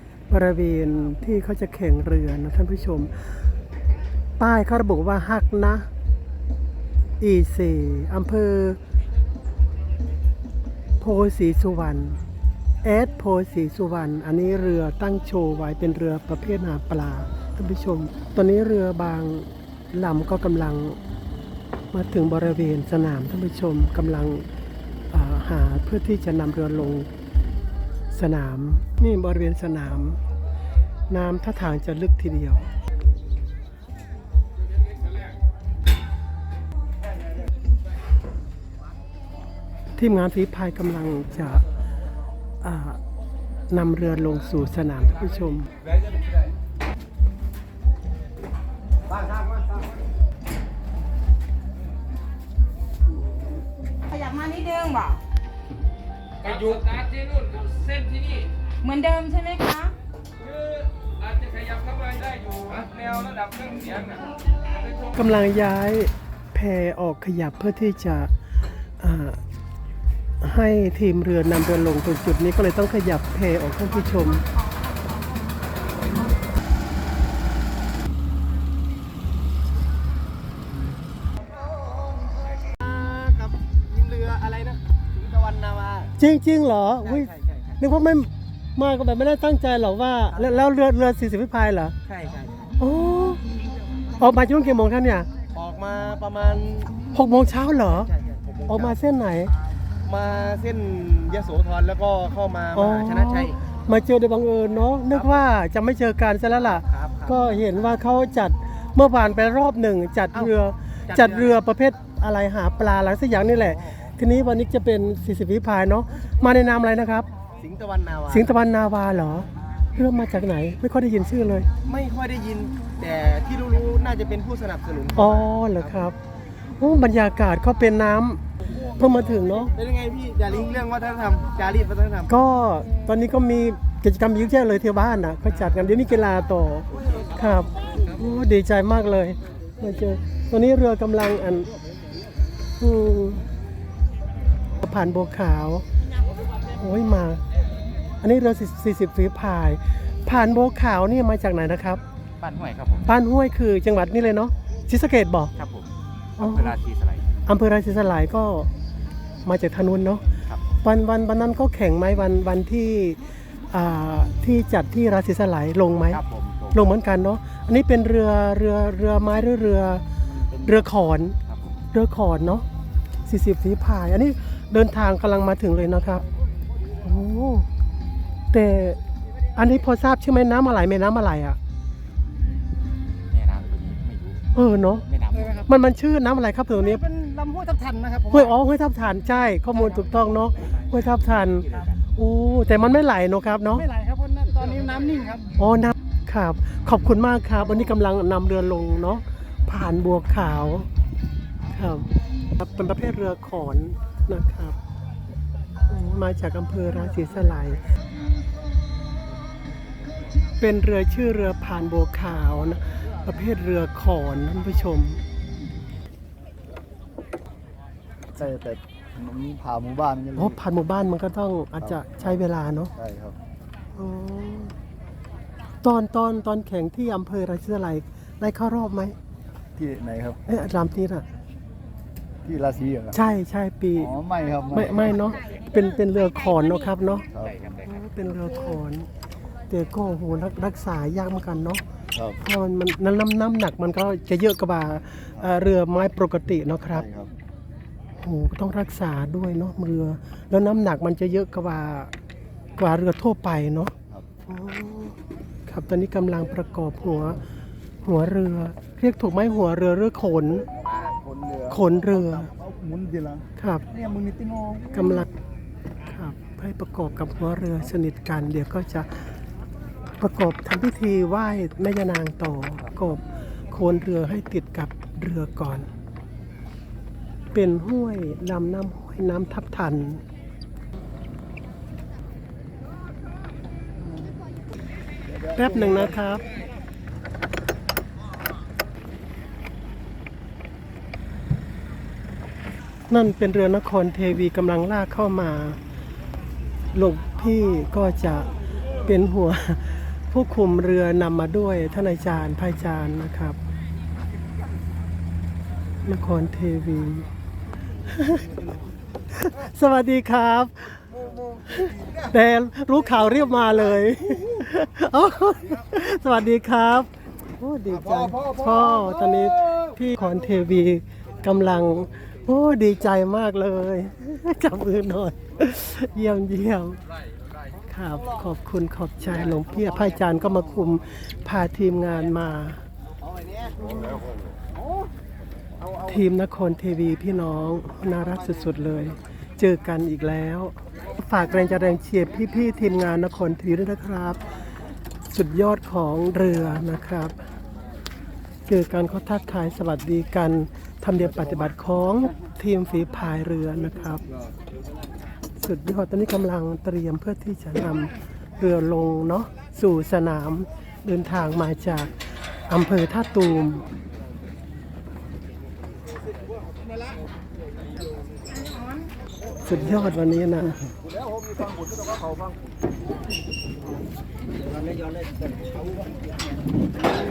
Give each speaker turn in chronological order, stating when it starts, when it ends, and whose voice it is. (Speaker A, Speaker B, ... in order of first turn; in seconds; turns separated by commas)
Speaker A: 0.3-3.4, Speaker A: 4.4-5.9, Speaker A: 7.2-8.8, Speaker A: 11.0-12.2, Speaker A: 12.8-21.0, Speaker A: 21.9-24.4, Speaker A: 25.1-27.1, Speaker A: 28.1-30.2, Speaker A: 31.1-32.7, Speaker A: 40.0-41.6, Speaker A: 42.6-43.0, Speaker A: 43.7-45.7, Speaker B: 54.1-55.2, Speaker B: 56.6-57.0, Speaker B: 58.2-60.0, Speaker A: 65.1-68.3, Speaker A: 69.0-69.4, Speaker A: 70.4-74.4, Speaker C: 82.8-86.1, Speaker A: 86.2-91.9, Speaker C: 87.1-87.8, Speaker C: 92.1-92.7, Speaker A: 92.8-93.4, Speaker A: 94.2-95.3, Speaker C: 95.5-96.9, Speaker A: 97.1-98.1, Speaker C: 98.0-99.0, Speaker A: 98.7-99.5, Speaker C: 100.0-103.6, Speaker A: 102.7-117.3, Speaker C: 106.8-107.3, Speaker C: 111.1-111.5, Speaker C: 117.6-118.5, Speaker A: 118.3-121.7, Speaker C: 121.8-125.8, Speaker A: 125.1-126.2, Speaker A: 126.8-128.4, Speaker A: 128.9-129.8, Speaker C: 129.8-132.3, Speaker A: 132.3-141.7, Speaker A: 142.8-143.4, Speaker A: 144.8-145.8, Speaker A: 146.8-147.4, Speaker A: 148.2-152.0, Speaker D: 152.4-153.1, Speaker A: 153.0-155.5, Speaker D: 155.6-157.3, Speaker A: 156.4-156.8, Speaker A: 157.4-158.7, Speaker A: 159.4-160.2, Speaker D: 160.5-160.7, Speaker A: 160.8-163.2, Speaker A: 163.7-170.0, Speaker D: 166.1-166.8, Speaker A: 170.6-171.3, Speaker D: 171.5-171.8, Speaker A: 171.9-172.7, Speaker A: 173.2-176.2, Speaker A: 177.0-177.7, Speaker A: 178.5-179.0, Speaker A: 179.6-181.6, Speaker D: 183.3-184.4, Speaker A: 184.5-187.1, Speaker D: 185.1-185.7, Speaker A: 188.3-193.9, Speaker D: 190.4-190.9, Speaker A: 195.6-200.9, Speaker A: 201.7-204.8, Speaker A: 205.9-207.8, Speaker A: 210.6-215.2, Speaker E: 218.3-220.5, Speaker A: 220.3-222.9, Speaker E: 223.0-223.3, Speaker A: 223.9-224.7, Speaker A: 225.8-229.2, Speaker E: 229.8-230.4, Speaker A: 230.4-231.2, Speaker E: 232.4-233.2, Speaker A: 233.1-234.2, Speaker E: 234.0-235.1, Speaker A: 234.7-237.3, Speaker D: 237.3-237.9, Speaker A: 237.8-239.1, Speaker A: 239.7-241.8, Speaker A: 242.4-247.1, Speaker E: 247.0-247.3, Speaker A: 248.2-252.1, Speaker A: 252.8-253.9, Speaker A: 254.5-257.4, Speaker A: 258.0-260.7, Speaker E: 260.9-261.8, Speaker A: 261.7-262.5, Speaker E: 262.4-264.9, Speaker A: 263.6-263.9, Speaker A: 264.9-265.3, Speaker A: 266.1-269.2, Speaker A: 270.2-275.9, Speaker A: 277.5-280.2, Speaker A: 285.5-286.4, Speaker A: 293.1-295.8, Speaker A: 296.9-298.5, Speaker A: 299.0-303.6, Speaker A: 306.1-307.2, Speaker A: 308.1-308.5, Speaker A: 309.3-311.1, Speaker A: 311.6-327.0, Speaker A: 327.9-332.8, Speaker C: 333.3-333.9, Speaker A: 336.0-344.4, Speaker A: 345.3-347.4, Speaker A: 348.7-354.2, Speaker A: 355.6-362.1, Speaker A: 362.7-363.9, Speaker A: 369.6-370.8, Speaker D: 375.0-375.2